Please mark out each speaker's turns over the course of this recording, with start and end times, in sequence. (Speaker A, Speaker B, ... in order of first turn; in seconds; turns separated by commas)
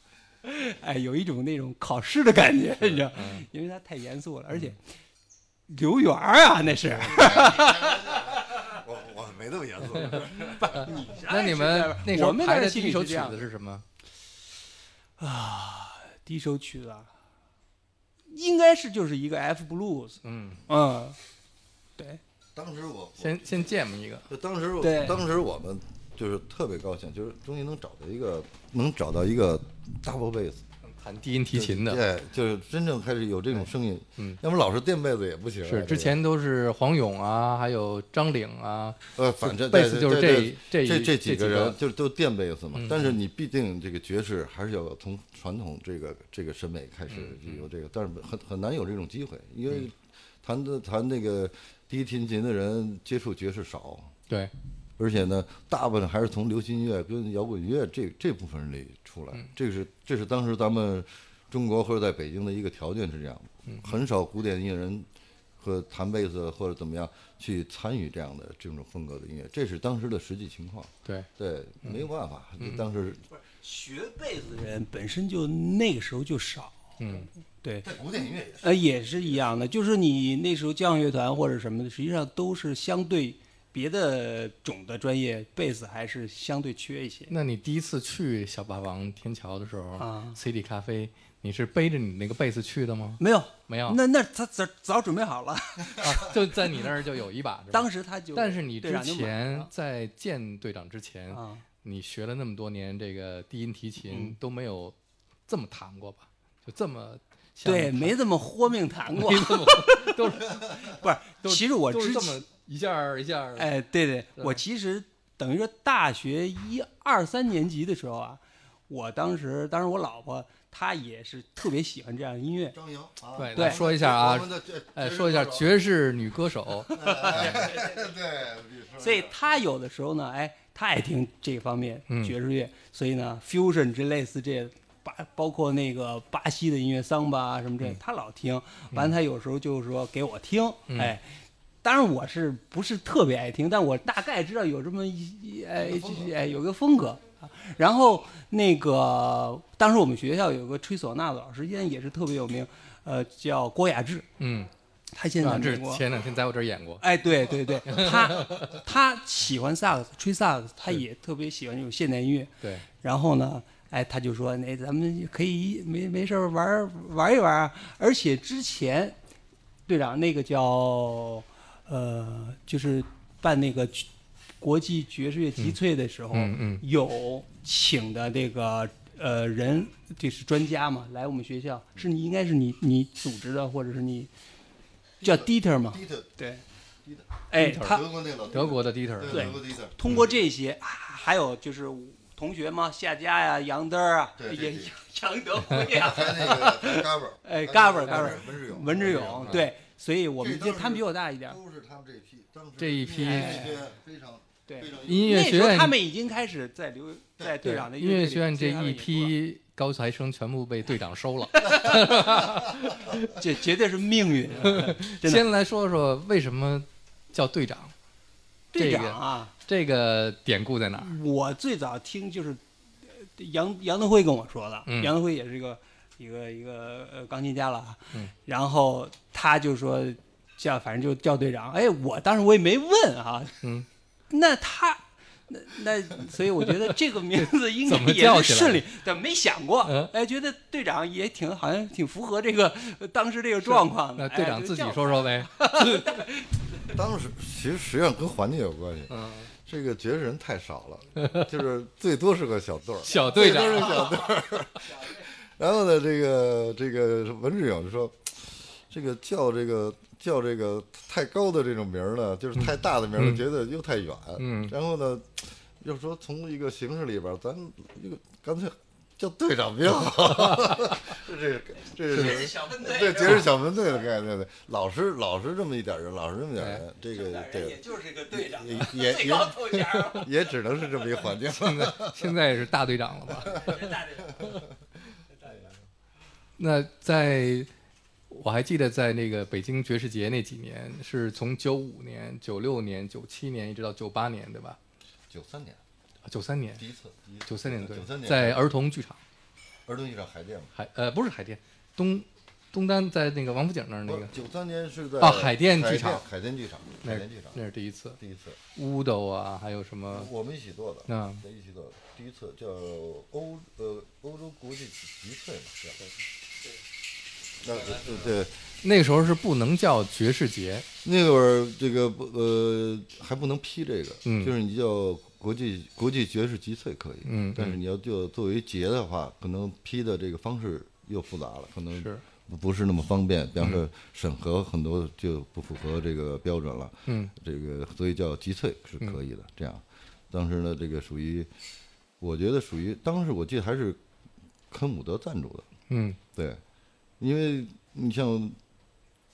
Speaker A: 0.4-4.8, Speaker B: 3.1-3.4, Speaker A: 5.7-8.7, Speaker C: 6.9-11.0, Speaker A: 10.3-13.5, Speaker B: 10.8-13.8, Speaker A: 15.2-17.1, Speaker A: 18.3-21.2, Speaker B: 20.2-20.6, Speaker C: 22.5-23.7, Speaker B: 23.2-24.3, Speaker C: 24.3-30.6, Speaker A: 24.8-25.2, Speaker B: 30.8-32.0, Speaker C: 31.5-36.2, Speaker B: 35.6-41.8, Speaker C: 39.1-54.1, Speaker B: 42.7-43.1, Speaker B: 47.1-47.6, Speaker C: 55.0-65.1, Speaker B: 63.7-63.9, Speaker C: 65.6-73.2, Speaker A: 73.4-77.9, Speaker B: 77.0-77.3, Speaker C: 77.8-79.3, Speaker A: 78.6-87.3, Speaker B: 87.3-94.0, Speaker A: 90.0-90.4, Speaker A: 93.2-96.9, Speaker B: 96.0-105.0, Speaker A: 97.7-99.7, Speaker A: 101.3-101.6, Speaker A: 104.0-104.3, Speaker B: 105.5-108.2, Speaker A: 107.6-112.4, Speaker B: 109.1-110.8, Speaker B: 111.4-113.7, Speaker A: 113.6-122.8, Speaker C: 122.7-125.8, Speaker B: 123.4-127.0, Speaker A: 123.5-123.8, Speaker C: 126.9-129.3, Speaker A: 126.9-128.0, Speaker A: 129.0-141.3, Speaker B: 132.1-132.3, Speaker A: 141.8-154.2, Speaker C: 145.9-146.3, Speaker B: 154.4-154.7, Speaker A: 155.1-156.0, Speaker B: 155.4-157.0, Speaker A: 157.0-169.2, Speaker B: 157.9-158.7, Speaker A: 169.9-174.1, Speaker A: 174.6-184.3, Speaker B: 176.3-176.8, Speaker C: 185.2-186.3, Speaker A: 185.2-186.6, Speaker C: 187.0-190.3, Speaker A: 187.5-188.1, Speaker B: 187.6-189.6, Speaker A: 189.3-201.6, Speaker C: 194.4-194.9, Speaker C: 195.6-199.7, Speaker B: 199.1-199.6, Speaker C: 200.4-205.4, Speaker B: 202.8-203.7, Speaker A: 203.2-203.9, Speaker A: 204.7-209.3, Speaker B: 205.0-205.9, Speaker B: 207.6-213.3, Speaker A: 211.6-212.6, Speaker A: 213.1-215.4, Speaker B: 214.6-217.9, Speaker A: 218.7-219.5, Speaker B: 218.8-221.1, Speaker A: 221.0-233.6, Speaker B: 224.8-225.1, Speaker A: 234.3-246.6, Speaker B: 236.7-238.8, Speaker B: 239.8-240.1, Speaker B: 243.6-246.2, Speaker C: 246.9-282.3, Speaker B: 249.1-249.5, Speaker B: 251.2-251.5, Speaker B: 253.1-254.3, Speaker B: 263.1-263.4, Speaker B: 264.4-264.7, Speaker B: 270.4-270.8, Speaker A: 272.3-273.1, Speaker B: 276.6-276.8, Speaker A: 277.3-280.2, Speaker B: 281.5-284.0, Speaker C: 283.5-284.6, Speaker A: 283.6-284.4, Speaker B: 286.6-287.7, Speaker B: 288.3-294.8, Speaker C: 295.3-295.8, Speaker B: 296.2-296.8, Speaker C: 296.8-298.6, Speaker B: 297.4-299.2, Speaker C: 299.9-300.7, Speaker B: 300.7-304.3, Speaker C: 304.1-307.6, Speaker B: 305.2-306.2, Speaker B: 307.0-308.2, Speaker C: 308.2-308.6, Speaker B: 308.7-310.3, Speaker C: 310.1-316.0, Speaker B: 311.1-311.4, Speaker C: 317.6-318.5, Speaker B: 318.8-320.9, Speaker C: 321.0-341.5, Speaker B: 324.2-324.5, Speaker B: 327.2-327.8, Speaker B: 331.9-332.2, Speaker B: 337.1-337.3, Speaker C: 342.2-344.0, Speaker C: 344.7-345.7, Speaker B: 345.9-346.2, Speaker C: 346.3-346.6, Speaker C: 347.2-348.6